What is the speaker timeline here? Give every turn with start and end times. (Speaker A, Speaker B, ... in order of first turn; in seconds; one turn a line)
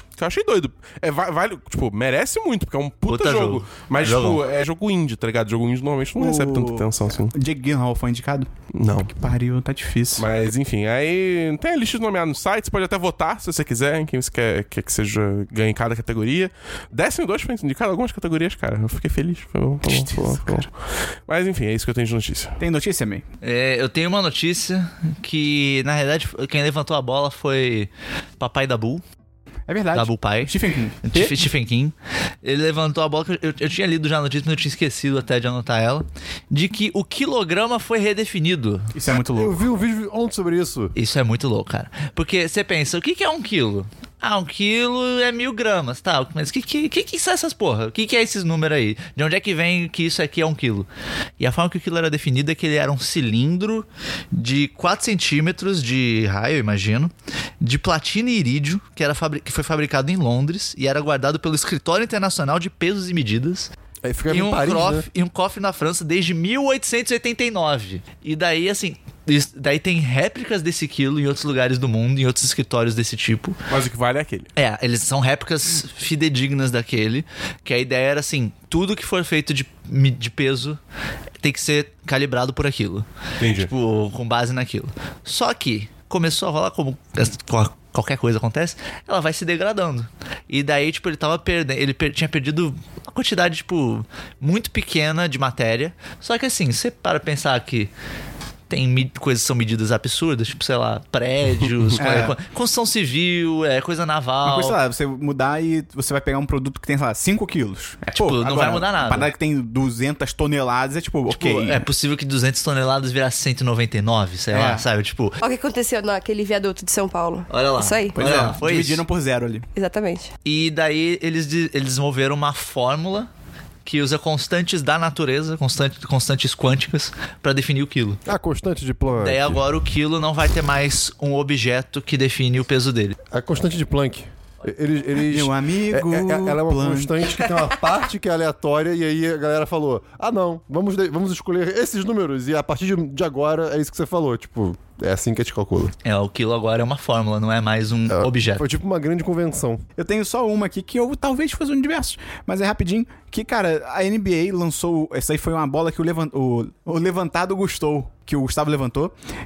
Speaker A: 0.2-7.3
Speaker B: 3.0-4.4
Speaker C: 6.2-10.3
Speaker A: 8.7-9.1
Speaker A: 10.2-20.7
Speaker C: 19.8-20.7
Speaker A: 21.3-22.6
Speaker C: 22.6-23.2
Speaker B: 23.4-29.0
Speaker C: 29.7-31.3
Speaker B: 29.9-38.9
Speaker C: 38.9-39.6
Speaker D: 39.4-40.9
Speaker B: 40.9-50.9
Speaker B: 51.4-63.7
Speaker D: 64.0-65.1
Speaker B: 64.3-73.6
Speaker A: 73.7-74.5
Speaker B: 74.5-80.8
Speaker B: 81.4-97.9
Speaker A: 83.4-83.7
Speaker B: 98.7-104.8
Speaker C: 102.0-102.3
Speaker C: 104.4-111.8
Speaker B: 108.2-109.3
Speaker B: 111.3-115.4
Speaker C: 114.5-114.8
Speaker E: 115.4-118.2
Speaker B: 117.5-119.0
Speaker C: 118.1-119.7
Speaker E: 119.8-120.3
Speaker B: 120.4-123.3
Speaker B: 123.8-128.2
Speaker D: 128.2-129.6
Speaker B: 129.2-133.2
Speaker D: 133.3-145.9
Speaker C: 135.2-137.4
Speaker B: 146.0-148.7
Speaker D: 148.1-149.8
Speaker C: 149.9-159.1